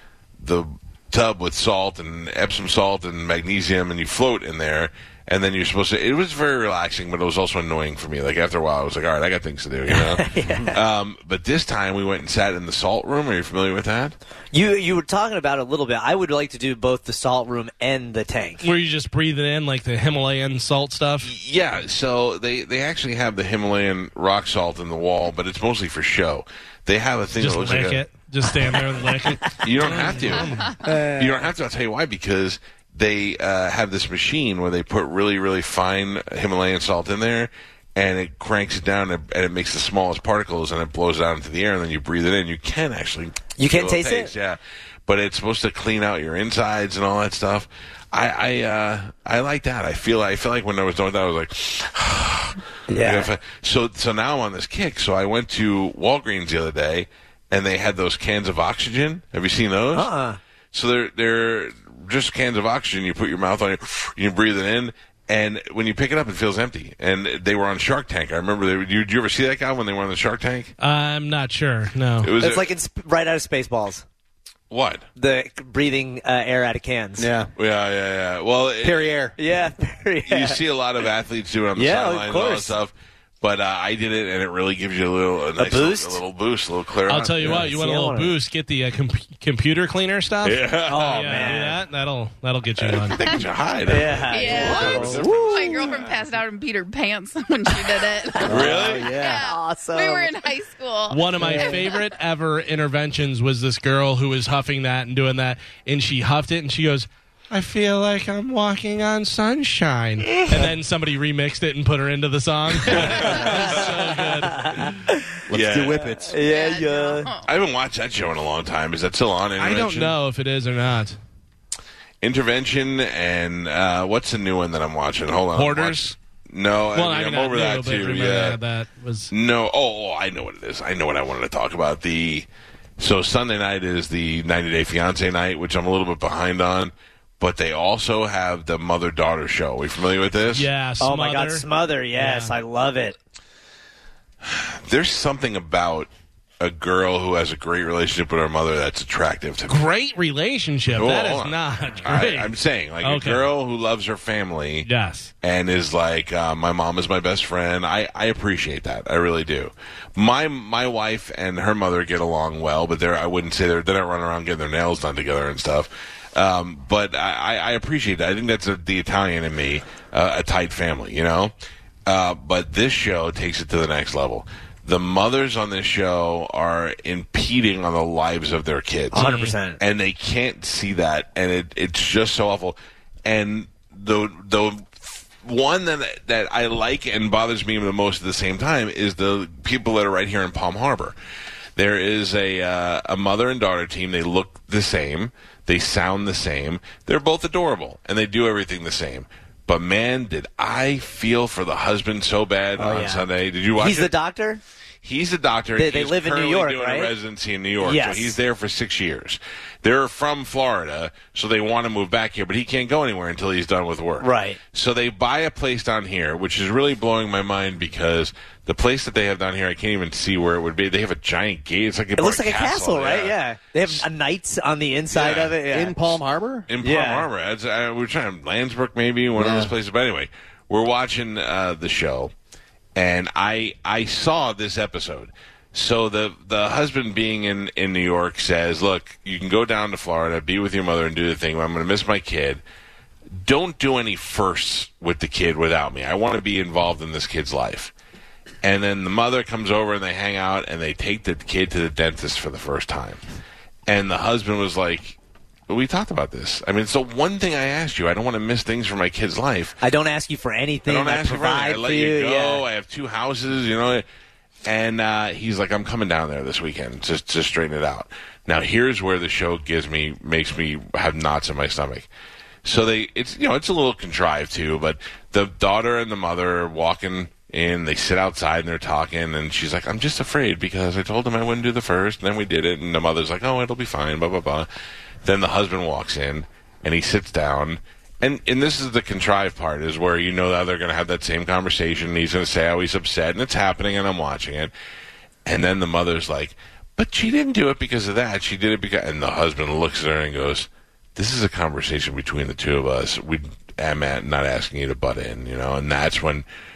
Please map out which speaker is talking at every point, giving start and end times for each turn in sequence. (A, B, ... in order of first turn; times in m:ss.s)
0:00.4-0:14.2 A
0:09.9-0:10.8 B
0:14.5-0:18.6 B
0:18.6-0:21.3 C
0:21.2-0:28.1 A
0:27.4-0:30.8 C
0:29.5-1:00.1 A
0:30.8-0:31.4 B
0:43.6-0:44.3 B
0:52.9-0:53.3 B
0:59.9-1:00.4 B
1:00.7-1:10.7 A
1:10.8-1:12.3 C
1:12.2-1:12.7 A
1:12.4-1:14.0 B
1:14.7-1:15.0 A
1:15.2-1:17.3 B
1:17.2-1:17.5 D
1:17.6-1:19.2 A
1:18.8-1:19.4 D
1:19.4-1:20.6 B
1:20.3-1:27.6 A
1:21.8-1:22.8 B
1:25.6-1:26.2 B
1:27.1-1:33.2 C
1:27.4-1:28.3 B
1:30.4-1:31.6 A
1:30.9-1:31.8 B
1:32.8-1:36.1 A
1:33.9-1:35.8 B
1:34.3-1:38.5 E
1:34.8-1:35.7 D
1:38.4-1:40.4 B
1:38.4-1:39.4 D
1:38.5-1:39.1 A
1:39.1-1:42.0 E
1:41.1-1:55.0 C
1:41.4-1:41.8 B
1:50.4-1:50.6 A
1:52.8-1:54.1 A
1:53.3-1:53.8 B
1:54.5-1:55.2 B
1:55.5-1:56.4 D
1:55.5-1:56.0 A
1:56.2-1:57.3 B
1:56.3-1:57.5 E
1:57.4-2:00.2 A
1:59.6-2:01.2 C
2:02.2-2:08.6 A
2:05.6-2:06.2 C
2:07.0-2:09.3 C
2:09.3-2:12.5 A
2:13.0-2:20.7 A
2:20.5-2:21.7 C
2:21.0-2:23.2 B
2:22.2-2:22.5 C
2:24.4-2:26.1 A
2:26.6-2:29.9 A
2:29.7-2:33.5 C
2:30.9-2:34.9 A
2:34.8-2:35.3 C
2:35.4-2:51.5 A
2:52.1-3:11.1 A
2:59.1-2:59.5 C
2:59.1-2:59.8 B
3:11.8-3:24.1 A
3:22.8-3:23.2 B
3:23.8-3:24.6 B
3:25.0-3:44.0 A
3:25.8-3:27.1 B
3:27.8-3:28.4 B
3:34.2-3:34.6 B
3:42.2-3:46.0 B
3:45.1-3:45.6 A
3:45.7-3:46.7 D
3:46.7-3:52.3 A
3:46.8-3:47.3 B
3:49.4-3:49.7 D
3:53.0-4:02.6 A
4:03.4-4:07.9 A
4:08.6-4:13.2 A
4:13.9-4:15.2 A
4:15.7-4:19.8 A
4:19.8-4:22.6 B
4:20.9-4:24.0 A
4:24.7-4:32.1 A
4:32.6-4:44.7 A
4:45.2-4:54.7 A
4:55.5-5:06.4 A